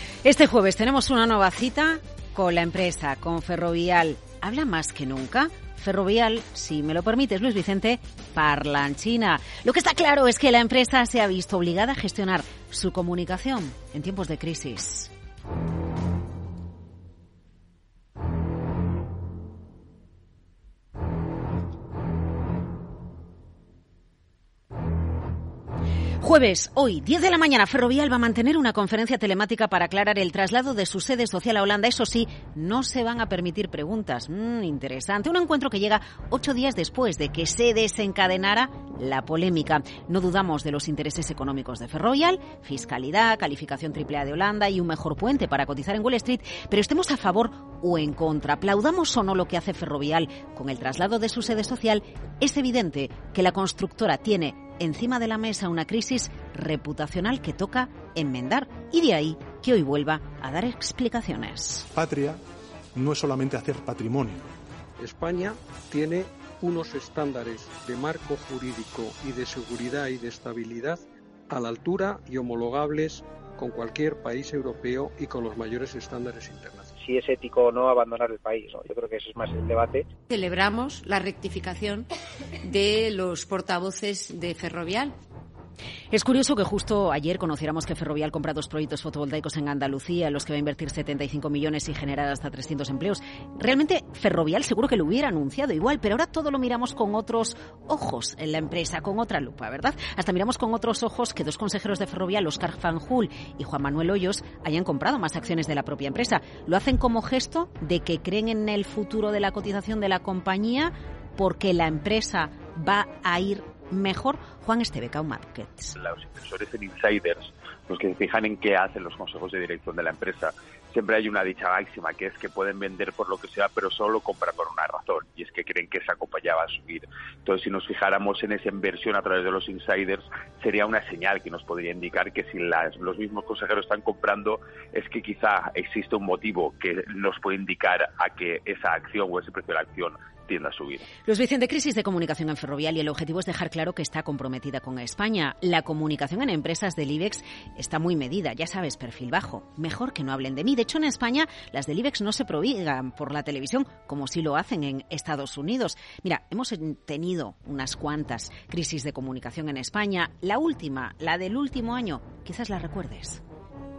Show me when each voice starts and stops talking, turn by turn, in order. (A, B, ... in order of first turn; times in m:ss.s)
0:00.2-0:15.1 A
0:26.2-1:01.9 A
1:01.9-1:02.4 B
1:03.0-1:04.5 B
1:05.0-1:16.9 C
1:17.0-1:20.1 D
1:20.3-1:22.1 E
1:22.6-1:25.2 E
1:26.1-1:56.0 A
1:56.0-2:21.1 F
2:21.2-2:43.4 A